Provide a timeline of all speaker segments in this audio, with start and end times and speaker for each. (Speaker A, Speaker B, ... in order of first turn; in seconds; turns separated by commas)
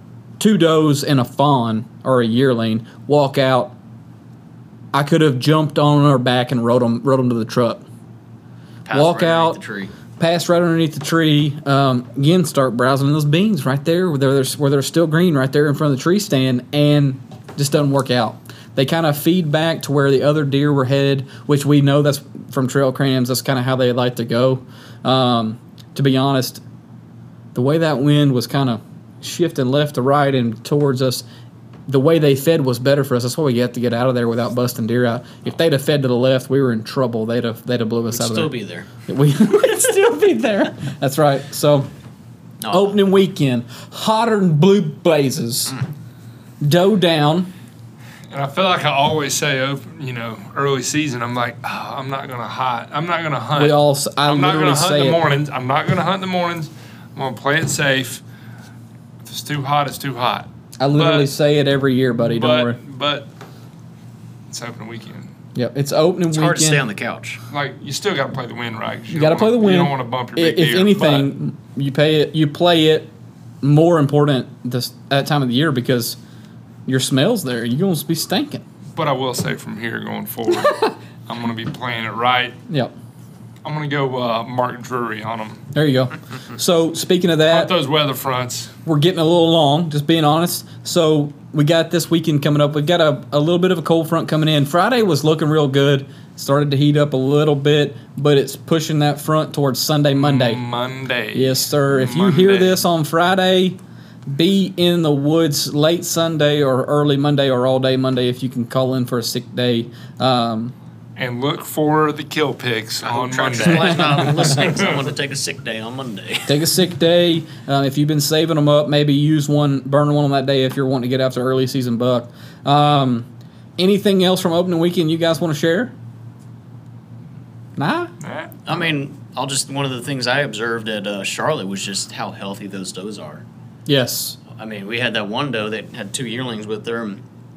Speaker A: 0.4-3.8, Speaker A: 4.9-7.8, Speaker B: 8.8-9.9, Speaker A: 8.9-9.6, Speaker A: 10.2-26.6, Speaker A: 27.5-31.2, Speaker A: 31.9-38.5, Speaker B: 38.1-38.9, Speaker A: 39.1-41.9, Speaker B: 42.6-43.0, Speaker A: 42.7-45.8, Speaker A: 46.6-47.5, Speaker C: 48.3-58.2, Speaker A: 53.5-55.2, Speaker C: 59.3-61.3, Speaker A: 60.8-62.8, Speaker C: 62.2-63.3, Speaker C: 64.5-65.3, Speaker A: 65.5-66.8, Speaker B: 66.3-67.4, Speaker C: 67.5-71.3, Speaker A: 69.1-76.2, Speaker A: 76.9-78.6, Speaker C: 79.0-82.6, Speaker C: 83.6-85.7, Speaker A: 85.7-87.7, Speaker C: 87.4-88.7, Speaker A: 88.8-100.6, Speaker C: 100.2-102.8, Speaker A: 101.3-110.7, Speaker C: 111.2-114.9, Speaker B: 113.0-116.6, Speaker A: 116.5-125.9, Speaker A: 127.8-128.1, Speaker C: 128.2-128.8, Speaker B: 128.7-133.4, Speaker A: 133.9-134.4, Speaker B: 134.5-137.2